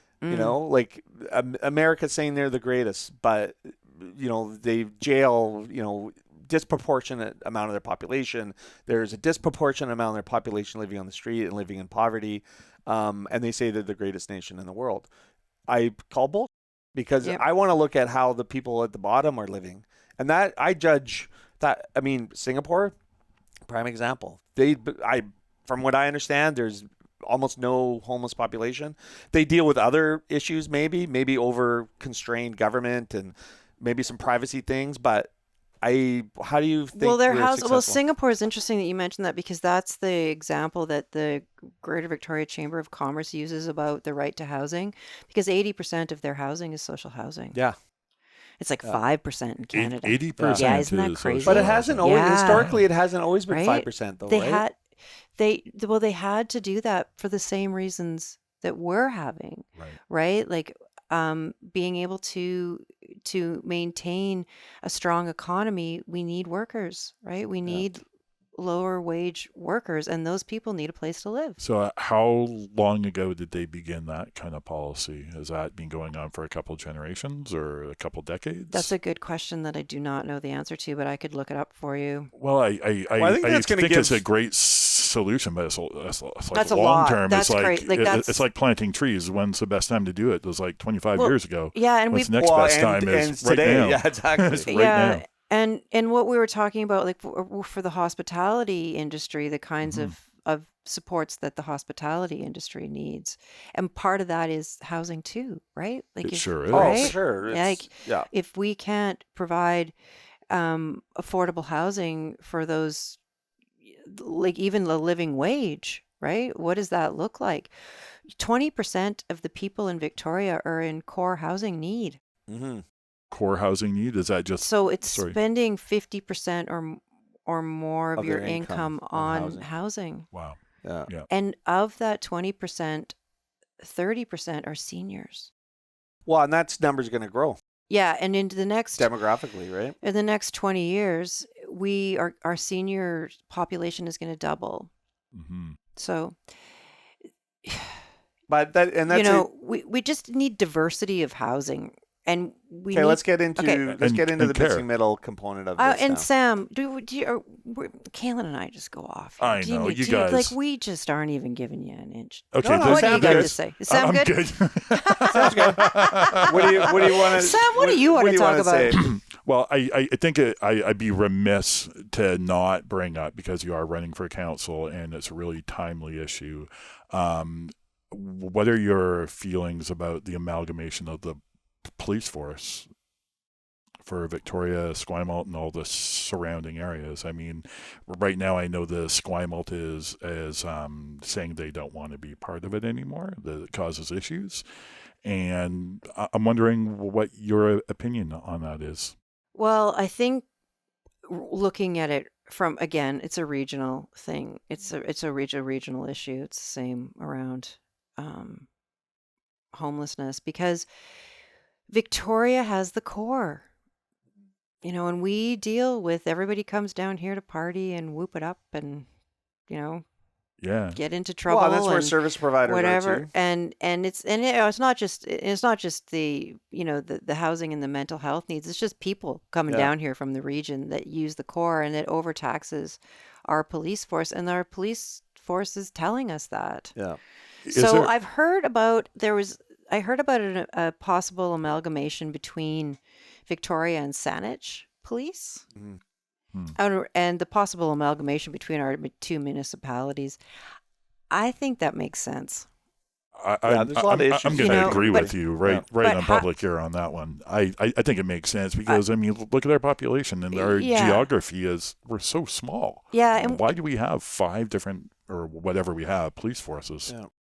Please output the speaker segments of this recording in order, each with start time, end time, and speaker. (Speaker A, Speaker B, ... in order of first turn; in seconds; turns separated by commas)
Speaker A: 0.2-0.6, Speaker B: 0.3-15.1, Speaker B: 15.7-22.9, Speaker B: 23.7-35.3, Speaker B: 35.8-38.0, Speaker A: 36.9-47.6, Speaker A: 48.6-52.7, Speaker C: 49.7-52.9, Speaker B: 50.4-50.6, Speaker B: 51.4-54.6, Speaker A: 53.5-54.8, Speaker A: 55.4-68.0, Speaker A: 68.5-71.6, Speaker C: 71.6-78.9, Speaker A: 78.7-82.3, Speaker C: 82.3-95.2, Speaker B: 83.2-84.2, Speaker A: 86.5-88.4, Speaker A: 91.1-92.3, Speaker B: 92.4-94.9, Speaker A: 94.7-109.9, Speaker C: 99.8-100.1, Speaker C: 106.2-107.1, Speaker B: 106.7-108.3, Speaker A: 110.5-113.2, Speaker A: 113.9-117.7, Speaker A: 118.4-122.2, Speaker B: 122.5-122.8, Speaker C: 123.3-125.4, Speaker A: 124.6-130.3, Speaker B: 128.2-129.7, Speaker C: 130.3-131.3, Speaker B: 130.8-131.1, Speaker A: 131.3-133.1, Speaker A: 133.8-135.5, Speaker B: 136.2-137.6, Speaker A: 137.9-139.1, Speaker B: 138.9-140.0, Speaker A: 140.0-144.9, Speaker C: 145.3-145.8, Speaker A: 146.0-146.4, Speaker A: 147.7-147.9, Speaker B: 148.5-149.5, Speaker A: 149.1-153.8, Speaker B: 152.9-156.3, Speaker C: 153.9-154.9, Speaker A: 155.8-169.0, Speaker C: 159.4-160.6, Speaker C: 162.5-167.4, Speaker B: 162.6-163.6, Speaker B: 165.3-165.8, Speaker B: 166.4-169.0, Speaker C: 168.9-182.9, Speaker C: 184.0-194.6, Speaker C: 195.2-199.2, Speaker A: 199.6-200.5, Speaker A: 201.3-208.7, Speaker A: 209.7-210.9, Speaker A: 211.9-213.7, Speaker A: 214.8-219.1, Speaker A: 219.7-220.1, Speaker C: 220.6-221.0, Speaker A: 220.9-236.9, Speaker B: 221.5-223.3, Speaker B: 229.7-229.9, Speaker C: 237.7-238.1, Speaker A: 237.7-245.6, Speaker A: 246.8-250.4, Speaker A: 251.3-252.7, Speaker C: 253.4-267.1, Speaker B: 253.6-255.8, Speaker A: 254.5-255.3, Speaker A: 256.0-256.5, Speaker A: 260.5-261.3, Speaker A: 263.1-263.7